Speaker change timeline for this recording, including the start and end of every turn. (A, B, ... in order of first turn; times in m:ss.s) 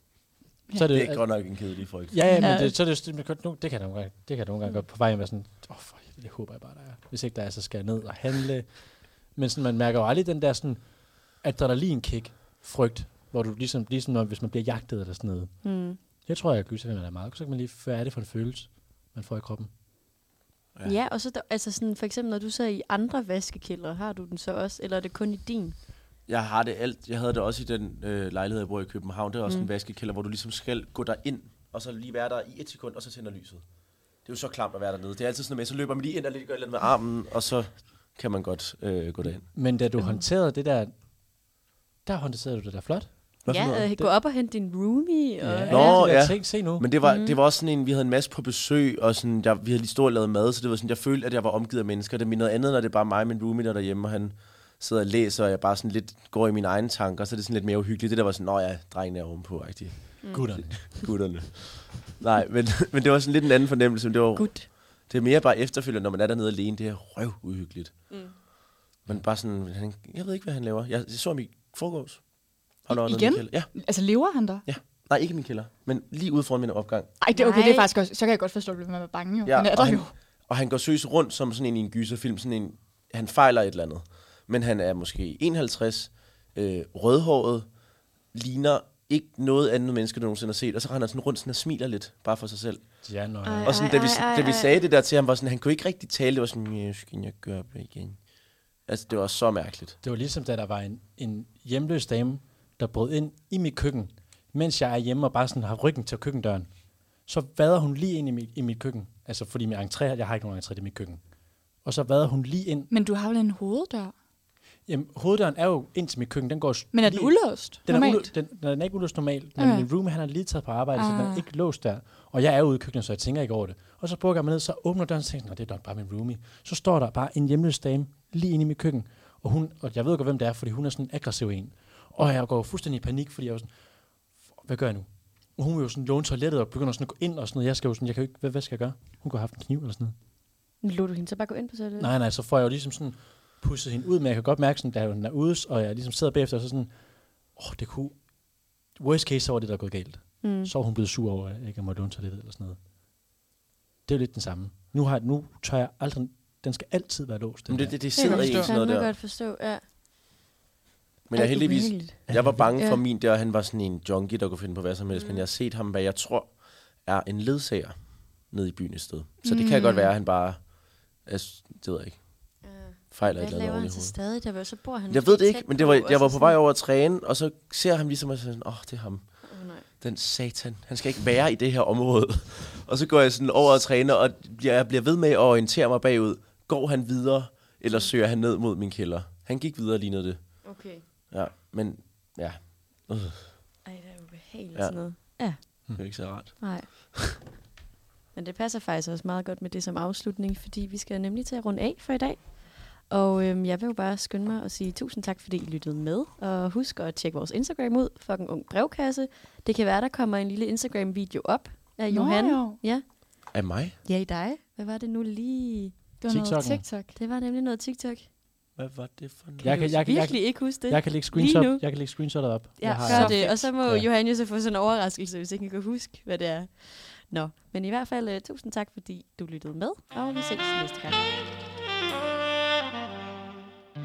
0:00.7-0:01.5 A
0:00.9-0:02.2 B
0:02.1-0:15.7 A
0:02.2-0:02.6 C
0:02.4-0:02.7 D
0:15.6-0:16.0 D
0:16.2-0:19.7 A
0:20.8-0:25.7 D
0:26.3-0:33.6 B
0:34.2-0:39.5 B
0:39.2-0:40.9 A
0:42.0-0:43.4 A
0:43.4-0:43.9 B
0:43.5-0:46.3 D
0:45.4-0:46.9 A
0:45.7-1:08.4 B
0:47.0-0:47.4 D
1:00.2-1:01.0 D
1:00.3-1:01.0 A
1:04.4-1:04.7 D
1:09.0-1:13.7 B
1:12.9-1:14.6 C
1:14.6-1:17.1 B
1:17.2-1:20.1 C
1:17.3-1:17.9 D
1:19.4-1:27.6 B
1:28.3-1:32.8 B
1:33.0-1:33.9 A
1:33.4-1:34.7 D
1:33.6-1:38.2 B
1:38.9-1:40.0 B
1:40.0-1:46.7 A
1:47.2-1:51.2 A
1:51.8-1:52.9 A
1:52.9-1:54.1 C
1:54.9-2:13.7 A
1:56.9-1:58.3 C
1:59.6-1:59.9 C
2:00.9-2:01.5 C
2:14.6-2:20.1 A
2:20.8-2:22.1 D
2:22.0-2:26.9 A
2:27.5-2:28.3 A
2:28.9-2:32.8 A
2:30.4-2:30.7 D
2:34.0-2:38.0 A
2:37.7-2:39.1 B
2:38.2-2:39.8 D
2:38.2-2:38.7 C
2:41.3-2:54.2 B
2:41.3-2:43.0 D
2:42.3-2:42.6 A
2:45.1-2:45.4 D
2:49.4-2:49.7 C
2:49.4-2:50.1 D
2:52.6-2:56.6 D
2:55.1-3:10.7 B
2:59.4-2:59.8 D
3:10.6-3:11.0 D
3:11.3-3:13.5 B
3:13.8-3:15.9 D
3:14.7-3:15.4 B
3:16.0-3:17.1 B
3:16.6-3:17.5 D
3:18.3-3:33.0 D
3:32.1-3:32.8 C
3:33.5-3:34.0 B
3:34.0-3:35.9 D
3:36.2-3:37.1 C
3:36.3-3:36.8 A
3:37.1-3:38.3 D
3:38.8-3:39.8 B
3:39.6-3:42.0 D
3:39.6-3:44.1 A
3:42.8-3:51.2 D
3:43.0-3:43.6 C